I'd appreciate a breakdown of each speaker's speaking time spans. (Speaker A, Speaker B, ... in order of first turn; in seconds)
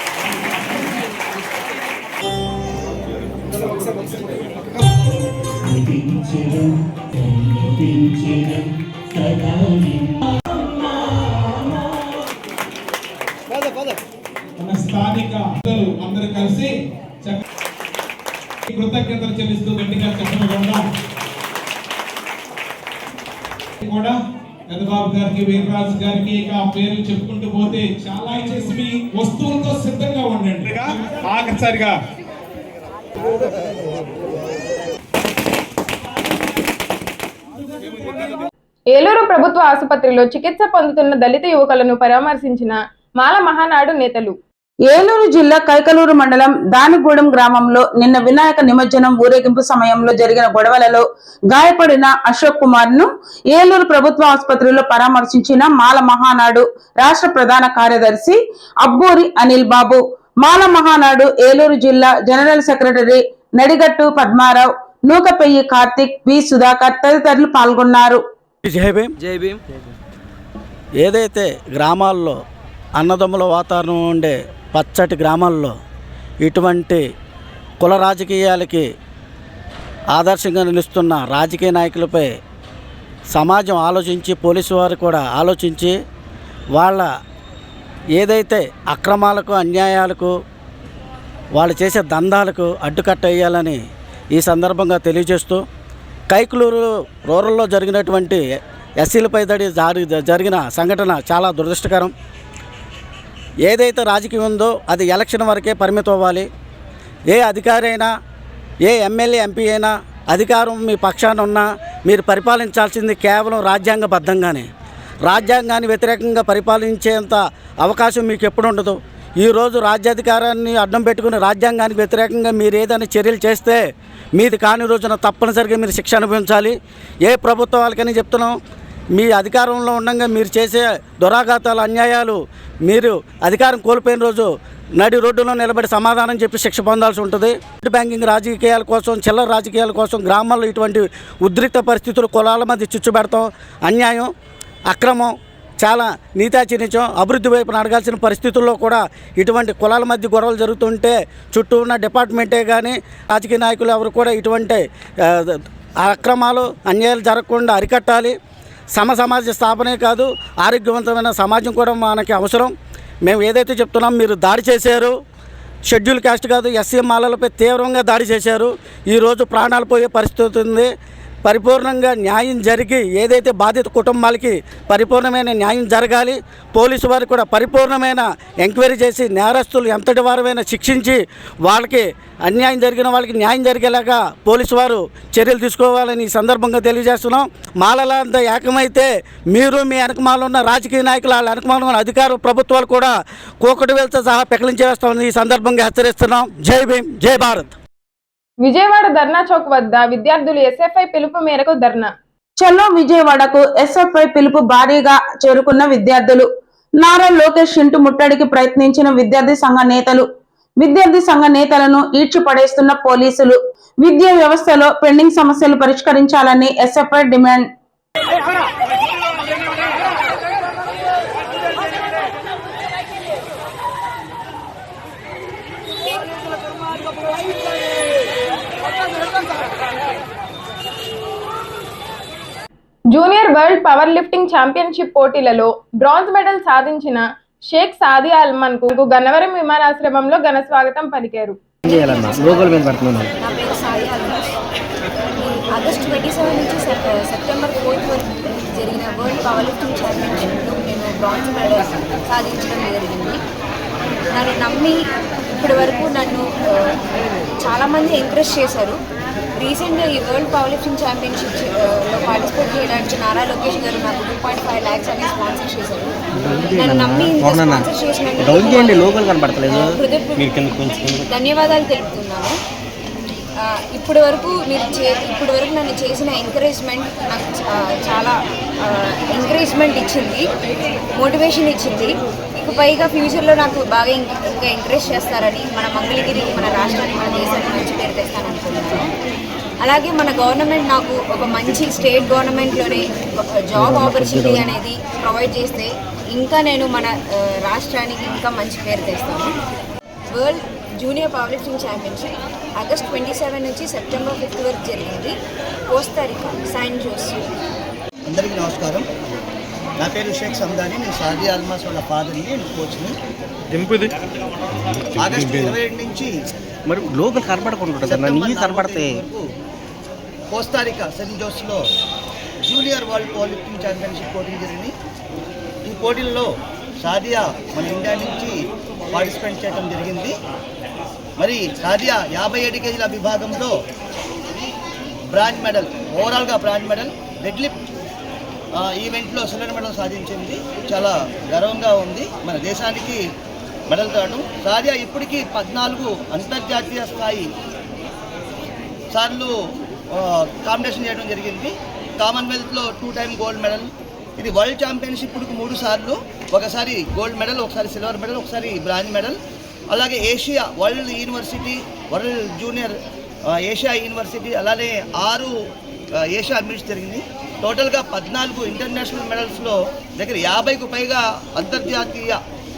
Speaker A: 5.7-10.2, 241.9-243.3, 266.4-271.3, 293.8-294.8, 315.4-315.8, 316.9-319.2
Speaker B: 14.6-16.7, 18.7-20.9, 23.8-24.2, 24.7-32.0
Speaker C: 38.9-44.4, 198.6-202.1, 233.1-241.6
Speaker D: 44.9-68.2, 202.6-206.5, 207.0-210.2, 210.8-217.7
Speaker E: 68.6-69.1, 71.0-72.4, 73.0-75.7, 76.4-77.0, 77.8-78.8, 80.1-82.3, 83.3-86.0, 86.8-87.1, 88.2-90.3, 91.5-93.8, 94.3-95.6, 96.3-98.4, 99.0-102.1, 103.7-106.5, 107.3-108.1, 108.8-114.7, 115.2-123.8, 124.3-128.6, 129.1-144.3, 144.9-158.3, 158.9-162.7, 163.2-165.1, 165.9-170.9, 171.4-197.8
Speaker F: 241.9-242.7, 243.4-244.4, 245.4-248.2, 248.8-253.4, 254.3-254.9, 255.6-256.8, 257.6-258.9, 259.6-266.1, 266.7-269.1, 269.7-270.4, 271.3-272.5, 274.0-277.4, 279.4-280.4, 281.2-281.9, 282.6-289.0, 289.9-293.0, 293.7-295.8, 296.4-297.1, 297.7-299.5, 300.4-302.3, 302.8-305.3, 305.9-307.4
Speaker G: 308.3-309.1, 310.0-313.2, 315.1-316.3, 318.0-319.4, 320.5-321.8, 322.6-324.9, 325.9-326.5, 327.0-328.6, 329.1-330.3, 331.4-333.8, 335.3-337.8, 338.8-343.2, 343.9-347.4, 349.1-349.5, 350.1-353.9, 354.4-359.4, 359.9-362.9, 363.6-365.5, 366.2-372.4